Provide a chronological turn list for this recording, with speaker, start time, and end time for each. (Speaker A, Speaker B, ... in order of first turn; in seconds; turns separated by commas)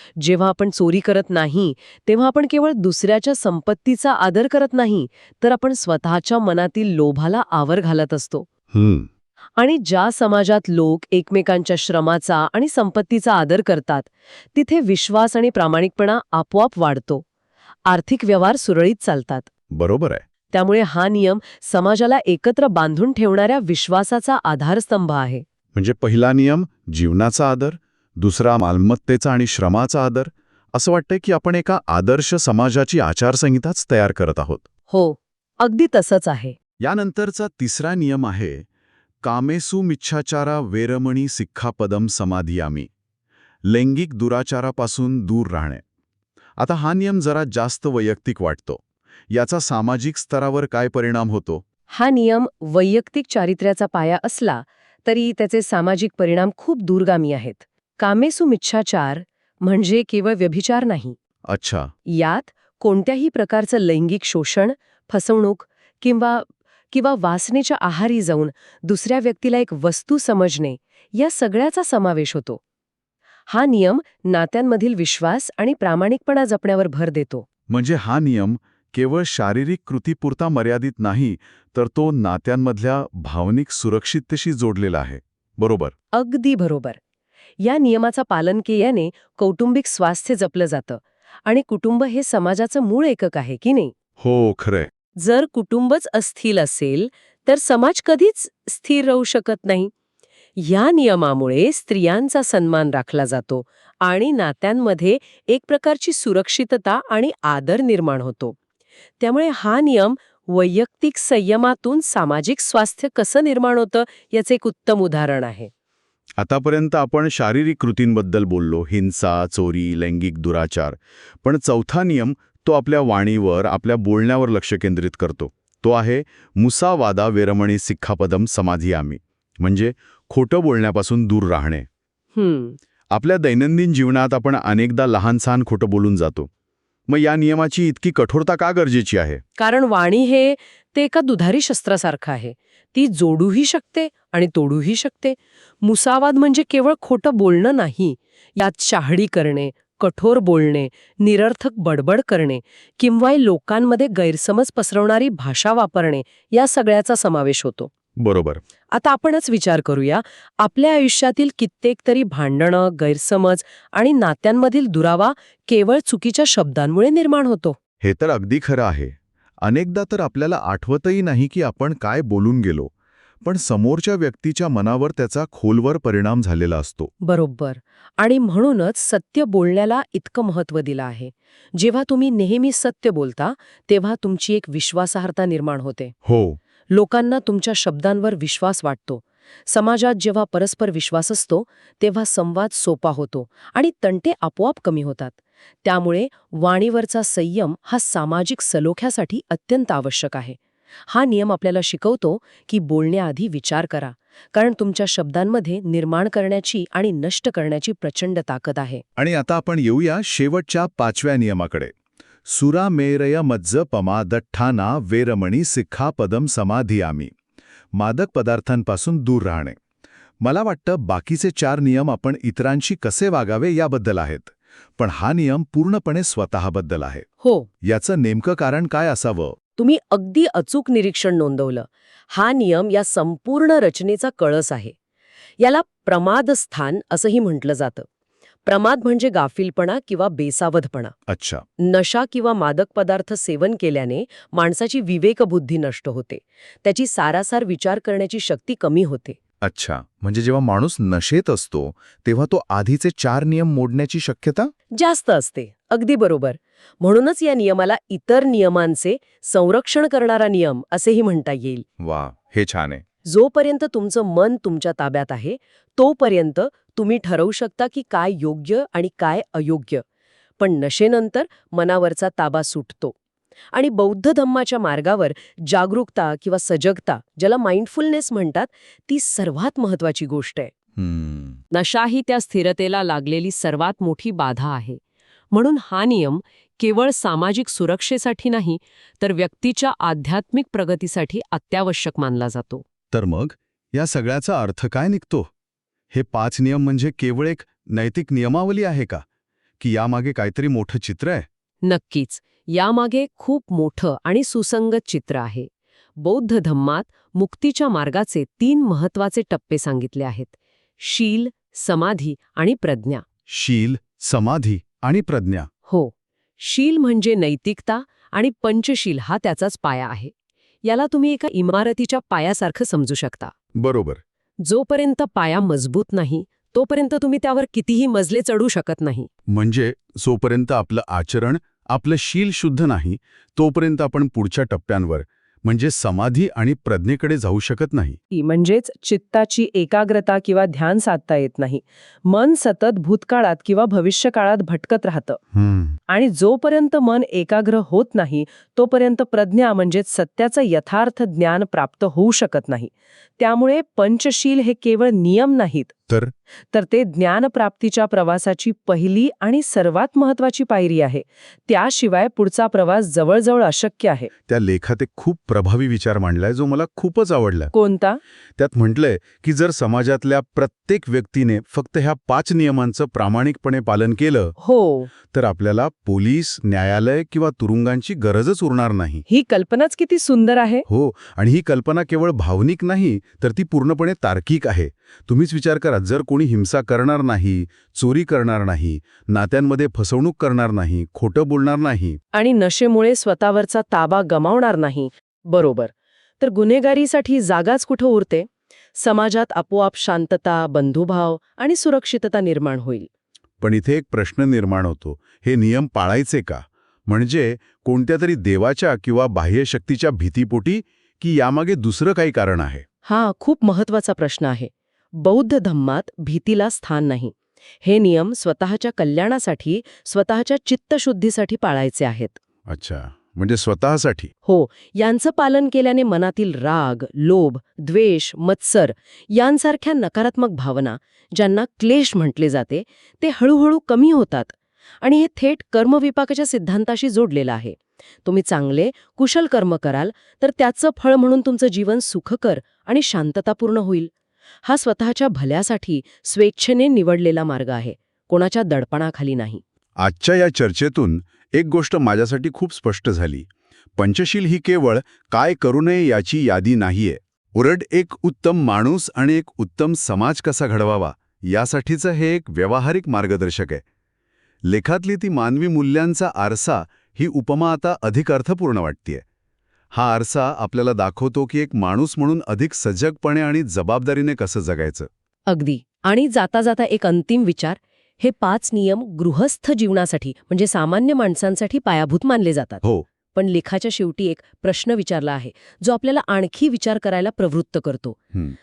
Speaker A: 0.2-8.5, Speaker B: 8.7-9.1, Speaker A: 9.6-17.2, Speaker A: 17.9-19.5, Speaker B: 19.7-20.2, Speaker A: 20.5-25.4, Speaker B: 25.8-34.7, Speaker A: 34.9-36.6, Speaker B: 36.8-38.7, Speaker B: 39.2-42.9, Speaker B: 43.7-45.8, Speaker B: 46.6-51.6, Speaker A: 51.9-61.2, Speaker B: 61.5-61.9, Speaker A: 62.1-72.6, Speaker A: 73.5-77.5, Speaker B: 77.7-85.9, Speaker A: 86.1-87.0, Speaker A: 87.6-93.9, Speaker B: 94.2-94.9, Speaker A: 95.2-99.9, Speaker A: 100.6-108.6, Speaker A: 109.2-115.7, Speaker B: 116.4-131.9, Speaker A: 132.3-132.8, Speaker B: 133.1-136.5, Speaker B: 137.1-139.4, Speaker A: 139.6-157.9, Speaker B: 158.2-158.6, Speaker A: 158.9-167.8, Speaker B: 168.0-172.9, Speaker B: 173.4-177.1, Speaker A: 177.2-186.1, Speaker B: 186.2-186.6, Speaker A: 186.9-209.0, Speaker B: 209.2-211.9, Speaker B: 212.5-217.3, Speaker B: 217.9-219.8, Speaker B: 220.4-227.2, Speaker A: 227.4-227.7, Speaker B: 227.8-229.6, Speaker A: 229.8-234.9, Speaker A: 235.6-238.1, Speaker A: 238.7-241.2, Speaker B: 241.3-241.6, Speaker A: 241.8-249.4, Speaker B: 249.6-254.7, Speaker A: 254.9-261.9, Speaker B: 262.0-263.0, Speaker A: 263.2-270.0, Speaker A: 270.6-273.2, Speaker A: 273.7-280.7, Speaker B: 281.0-281.6, Speaker A: 281.7-292.8, Speaker B: 293.1-295.5, Speaker B: 296.1-299.2, Speaker B: 299.8-301.5, Speaker A: 301.8-313.2, Speaker B: 313.5-315.7, Speaker A: 315.9-323.5, Speaker B: 323.8-324.2, Speaker A: 324.6-329.3, Speaker B: 329.5-338.2, Speaker A: 338.3-345.4, Speaker B: 345.5-346.0, Speaker A: 346.1-355.9, Speaker A: 356.7-364.3, Speaker B: 364.5-367.7, Speaker A: 367.7-368.2, Speaker B: 368.6-374.6, Speaker A: 374.6-375.1, Speaker B: 375.3-379.2, Speaker A: 379.3-380.9, Speaker B: 380.9-392.2, Speaker A: 392.3-403.1, Speaker B: 403.6-412.8, Speaker A: 413.1-422.4, Speaker B: 422.7-424.3, Speaker A: 424.4-444.1, Speaker A: 444.6-449.6, Speaker B: 450.0-463.8, Speaker B: 464.6-469.2, Speaker B: 469.9-475.1, Speaker A: 475.5-482.8, Speaker A: 483.3-488.2